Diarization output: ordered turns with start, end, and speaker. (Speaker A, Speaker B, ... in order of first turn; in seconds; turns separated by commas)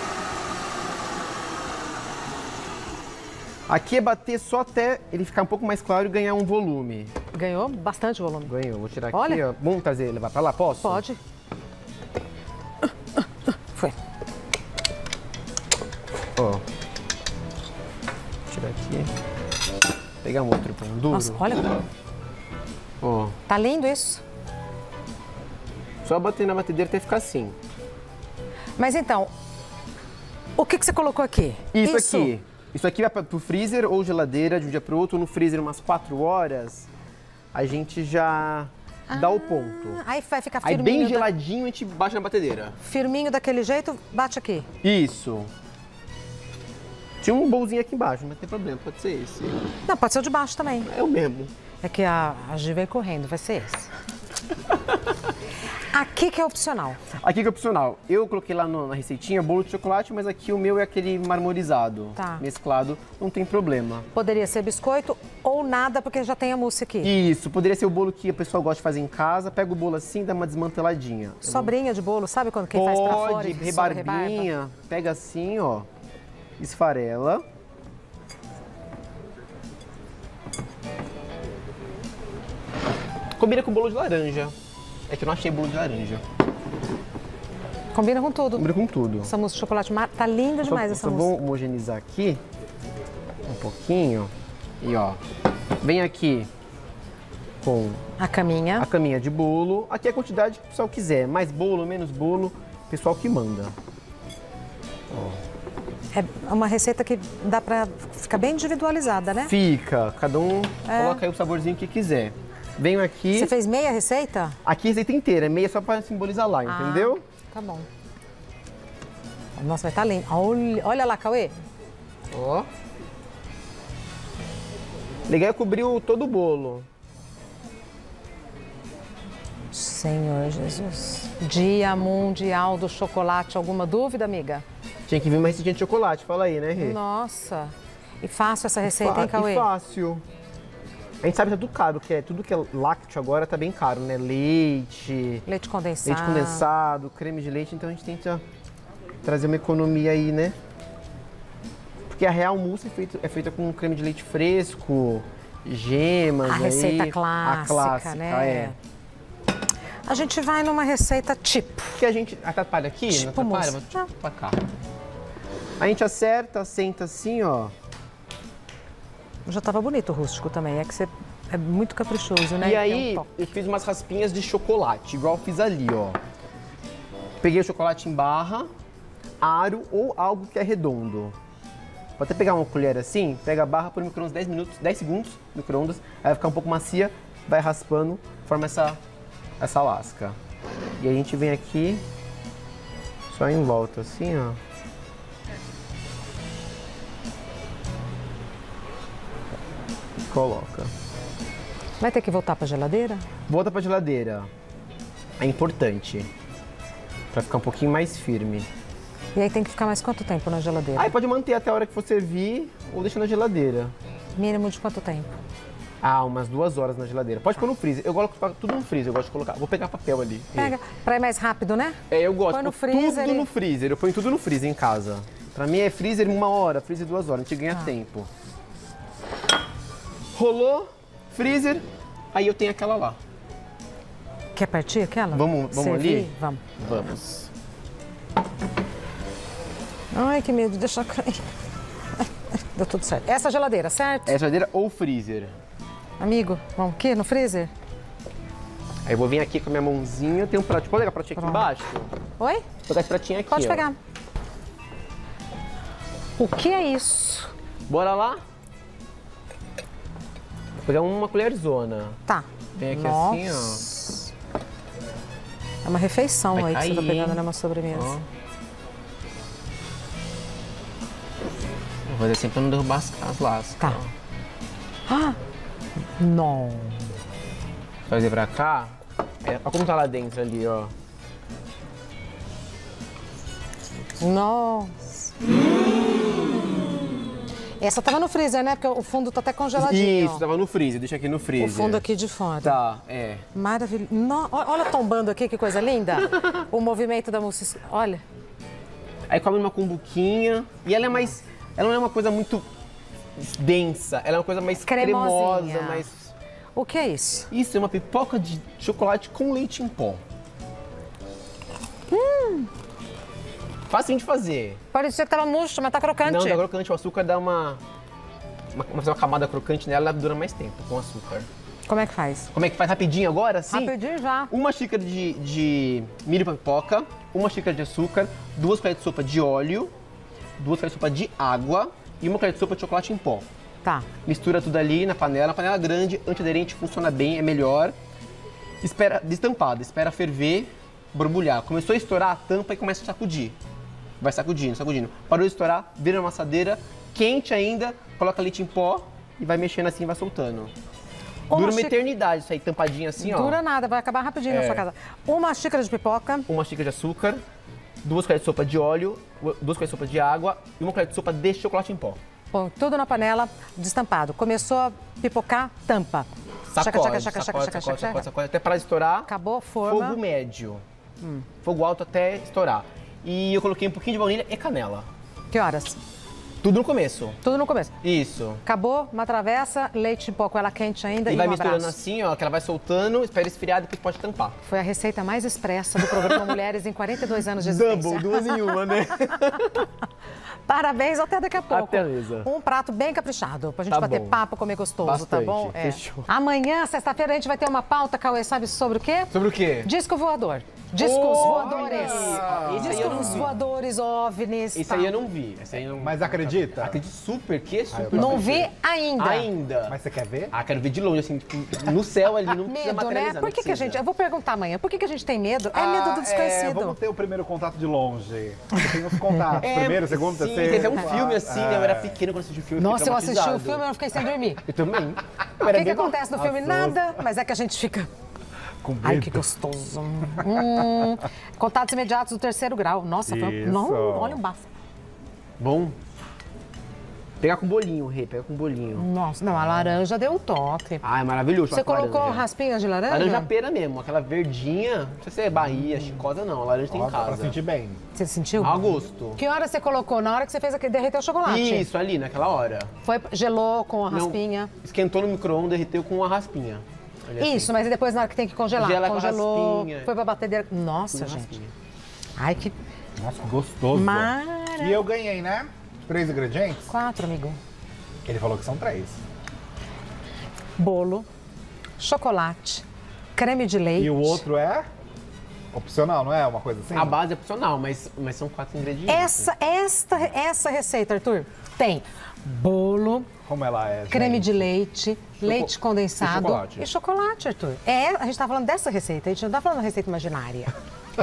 Speaker A: 3.7-7.1, Speaker B: 7.3-8.5, Speaker A: 8.5-11.0, Speaker B: 9.1-9.4, Speaker B: 10.8-11.2, Speaker A: 16.4-16.6, Speaker A: 18.5-19.1, Speaker A: 20.2-21.4, Speaker B: 21.1-21.8, Speaker A: 23.0-23.4, Speaker B: 23.5-24.2, Speaker A: 26.0-27.6, Speaker B: 28.8-29.3, Speaker B: 30.6-32.3, Speaker A: 31.7-36.9, Speaker A: 37.5-40.0, Speaker B: 39.1-41.3, Speaker A: 40.6-42.8, Speaker B: 42.8-44.7, Speaker A: 44.8-45.5, Speaker A: 47.2-49.7, Speaker B: 49.9-50.9, Speaker A: 50.8-51.5, Speaker B: 51.8-53.9, Speaker B: 55.9-57.1, Speaker A: 57.2-64.1, Speaker B: 62.1-62.4, Speaker B: 64.1-67.1, Speaker A: 67.0-71.7, Speaker B: 71.4-74.5, Speaker A: 72.7-75.9, Speaker A: 76.6-77.4, Speaker A: 83.4-84.5, Speaker A: 85.1-86.2, Speaker B: 87.9-88.7, Speaker A: 88.6-89.3, Speaker B: 89.2-91.3, Speaker A: 90.6-92.4, Speaker A: 93.5-95.2, Speaker A: 95.8-96.5, Speaker A: 97.6-98.0, Speaker B: 98.2-98.9, Speaker A: 98.8-103.7, Speaker A: 105.1-105.4, Speaker B: 106.1-109.5, Speaker A: 109.4-113.5, Speaker B: 110.8-111.2, Speaker B: 113.3-114.6, Speaker A: 114.6-117.2, Speaker B: 116.6-117.9, Speaker B: 119.5-121.5, Speaker A: 122.3-122.7, Speaker A: 125.3-126.8, Speaker B: 129.7-134.6, Speaker A: 135.1-137.0, Speaker B: 136.8-139.7, Speaker A: 138.8-140.2, Speaker A: 141.2-145.4, Speaker B: 145.4-146.7, Speaker A: 146.0-148.4, Speaker A: 149.2-150.6, Speaker A: 152.1-158.7, Speaker B: 156.4-158.8, Speaker B: 160.1-162.0, Speaker A: 162.0-164.6, Speaker B: 163.1-164.1, Speaker A: 165.8-167.7, Speaker B: 169.4-173.5, Speaker A: 172.6-176.2, Speaker A: 177.4-178.7, Speaker A: 179.4-181.3, Speaker A: 182.2-189.0, Speaker A: 189.6-190.4, Speaker A: 191.0-192.0, Speaker A: 193.3-194.6, Speaker A: 200.3-200.9, Speaker B: 202.0-203.2, Speaker A: 203.5-204.5, Speaker A: 205.4-206.3, Speaker A: 207.3-208.7, Speaker B: 209.3-211.1, Speaker A: 210.9-213.9, Speaker B: 214.3-215.3, Speaker A: 216.0-220.7, Speaker B: 220.5-223.5, Speaker A: 222.1-228.3, Speaker A: 230.3-233.2, Speaker B: 234.5-236.6, Speaker A: 235.3-237.5, Speaker B: 240.1-241.4, Speaker B: 242.2-244.3, Speaker A: 244.3-245.5, Speaker B: 246.2-247.7, Speaker A: 249.1-252.1, Speaker B: 251.4-251.7, Speaker B: 252.4-252.6, Speaker A: 252.9-253.9, Speaker B: 253.5-253.9, Speaker B: 256.4-257.5, Speaker A: 257.9-258.4, Speaker A: 260.8-262.2, Speaker B: 262.3-264.3, Speaker A: 262.8-263.8, Speaker B: 265.8-268.2, Speaker A: 266.5-268.2, Speaker A: 272.1-274.1, Speaker B: 275.1-275.4, Speaker B: 276.2-277.1, Speaker A: 278.1-280.9, Speaker B: 284.2-285.1, Speaker B: 287.8-290.4, Speaker A: 289.8-292.0, Speaker B: 291.6-292.8, Speaker A: 292.6-293.4, Speaker B: 293.5-298.2, Speaker A: 299.3-302.6, Speaker A: 303.4-306.3, Speaker B: 304.8-306.1, Speaker B: 306.7-307.5, Speaker A: 307.5-310.2, Speaker B: 312.1-312.7, Speaker A: 313.9-314.8, Speaker B: 314.9-316.6, Speaker A: 316.2-317.8, Speaker A: 318.7-321.5, Speaker B: 321.9-322.5, Speaker A: 322.5-323.9, Speaker B: 323.7-324.5, Speaker A: 324.5-329.9, Speaker A: 330.6-333.4, Speaker A: 334.2-337.9, Speaker A: 338.8-343.6, Speaker A: 344.2-350.7, Speaker B: 351.5-351.9, Speaker A: 351.5-353.6, Speaker B: 353.2-356.5, Speaker A: 354.5-354.8, Speaker A: 356.5-357.4, Speaker A: 358.0-362.2, Speaker B: 362.5-368.2, Speaker A: 366.7-369.3, Speaker B: 369.2-370.2, Speaker A: 369.8-370.8, Speaker A: 371.6-375.1, Speaker B: 375.5-376.0, Speaker A: 376.6-377.4, Speaker B: 377.4-377.9, Speaker A: 378.0-378.6, Speaker B: 378.6-382.0, Speaker A: 381.2-384.6, Speaker B: 384.6-388.6, Speaker A: 386.0-386.6, Speaker A: 387.5-389.9, Speaker B: 390.6-405.1, Speaker A: 391.7-392.5, Speaker A: 393.9-394.4, Speaker A: 395.0-396.3, Speaker A: 399.3-399.9, Speaker A: 401.0-403.5, Speaker C: 401.4-403.5, Speaker A: 404.7-410.0, Speaker C: 406.0-407.0, Speaker C: 407.9-408.6, Speaker B: 408.1-409.5, Speaker C: 409.9-410.5, Speaker A: 410.5-414.0, Speaker B: 412.6-417.0, Speaker C: 415.7-422.2, Speaker A: 419.6-423.8, Speaker B: 420.6-421.1, Speaker B: 422.8-424.6, Speaker A: 424.6-426.2, Speaker B: 425.6-428.1, Speaker C: 426.3-427.1, Speaker C: 428.8-429.4, Speaker B: 429.0-434.7, Speaker C: 433.3-434.4, Speaker A: 435.6-435.9, Speaker A: 437.4-439.1, Speaker B: 438.9-441.0, Speaker A: 441.0-442.5, Speaker B: 441.7-443.5, Speaker A: 443.1-447.6, Speaker C: 446.9-448.0, Speaker B: 448.1-451.9, Speaker A: 448.6-449.4, Speaker A: 451.4-452.9, Speaker B: 453.0-454.7, Speaker A: 454.1-457.7, Speaker B: 457.4-461.5, Speaker A: 458.7-460.1, Speaker A: 461.1-461.7, Speaker B: 462.4-462.7, Speaker C: 463.2-466.9, Speaker B: 463.9-465.0, Speaker B: 466.9-467.6, Speaker C: 468.2-469.2, Speaker B: 470.8-471.3, Speaker B: 472.0-472.8, Speaker B: 473.4-474.4, Speaker C: 474.0-474.9, Speaker C: 475.7-477.2, Speaker A: 476.9-479.5, Speaker B: 479.1-483.3, Speaker C: 483.4-484.7, Speaker B: 484.1-490.7, Speaker A: 485.4-486.9